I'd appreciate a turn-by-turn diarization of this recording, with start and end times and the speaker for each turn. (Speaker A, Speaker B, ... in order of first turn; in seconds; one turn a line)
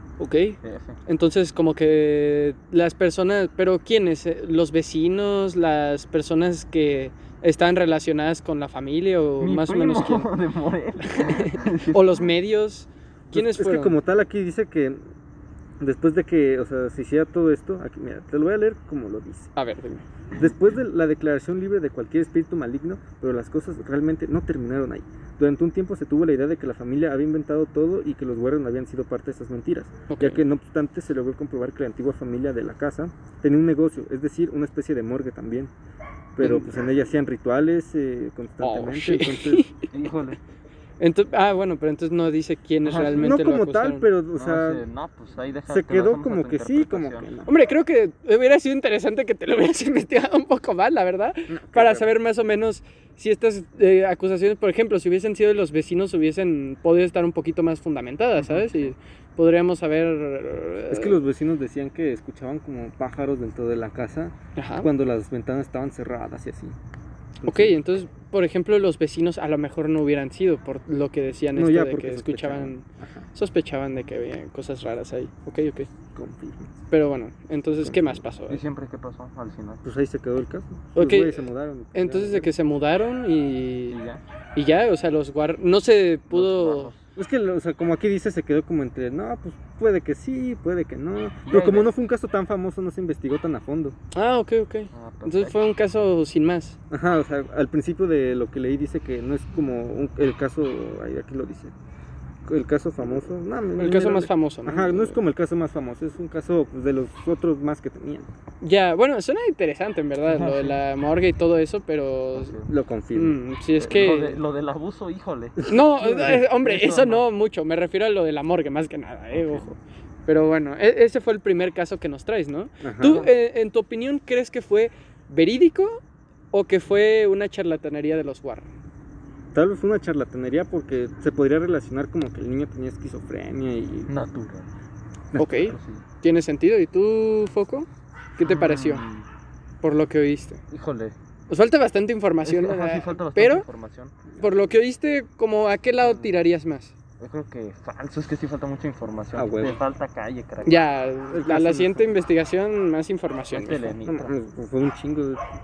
Speaker A: 0.2-10.3
Speaker B: 0.6-1.0
Speaker B: 9.4-12.2
Speaker A: 11.1-14.0
Speaker C: 13.3-15.0
Speaker C: 15.8-19.5
Speaker A: 19.6-20.1
Speaker C: 20.4-35.7
Speaker A: 30.1-30.4
Speaker C: 36.4-39.7
Speaker A: 36.4-36.7
Speaker A: 38.6-39.9
Speaker B: 39.9-40.4
Speaker A: 41.0-44.1
Speaker B: 42.9-43.4
Speaker C: 43.1-44.8
Speaker B: 44.4-47.3
Speaker C: 45.7-47.5
Speaker A: 47.5-61.2
Speaker C: 51.5-52.1
Speaker C: 60.9-66.8
Speaker A: 64.6-64.9
Speaker C: 67.4-67.8
Speaker A: 67.5-75.9
Speaker C: 71.5-73.3
Speaker C: 76.1-76.8
Speaker A: 76.9-78.7
Speaker C: 77.8-78.2
Speaker B: 78.5-79.8
Speaker C: 79.8-82.5
Speaker A: 81.0-84.0
Speaker B: 83.9-84.2
Speaker A: 84.5-86.9
Speaker B: 86.3-87.0
Speaker C: 87.2-94.0
Speaker B: 91.5-91.9
Speaker A: 94.1-96.8
Speaker B: 94.9-95.6
Speaker C: 96.9-101.7
Speaker C: 102.5-108.3
Speaker A: 103.8-105.2
Speaker A: 108.6-112.6
Speaker B: 110.4-110.7
Speaker B: 112.3-112.7
Speaker C: 112.7-113.4
Speaker A: 113.1-114.4
Speaker B: 113.8-115.7
Speaker C: 115.6-116.4
Speaker A: 115.7-119.8
Speaker B: 116.2-117.2
Speaker B: 119.3-119.7
Speaker A: 120.3-126.0
Speaker C: 122.8-123.3
Speaker A: 126.5-128.7
Speaker C: 129.5-134.1
Speaker B: 134.1-134.7
Speaker C: 135.3-135.7
Speaker A: 135.4-139.1
Speaker B: 135.6-136.0
Speaker B: 138.4-139.3
Speaker A: 139.8-140.6
Speaker B: 140.7-141.2
Speaker A: 141.5-143.7
Speaker B: 142.4-144.2
Speaker A: 144.4-146.9
Speaker B: 146.0-146.3
Speaker B: 147.2-150.9
Speaker C: 149.4-149.8
Speaker A: 150.6-154.0
Speaker C: 151.3-152.1
Speaker B: 153.5-154.3
Speaker C: 154.1-155.4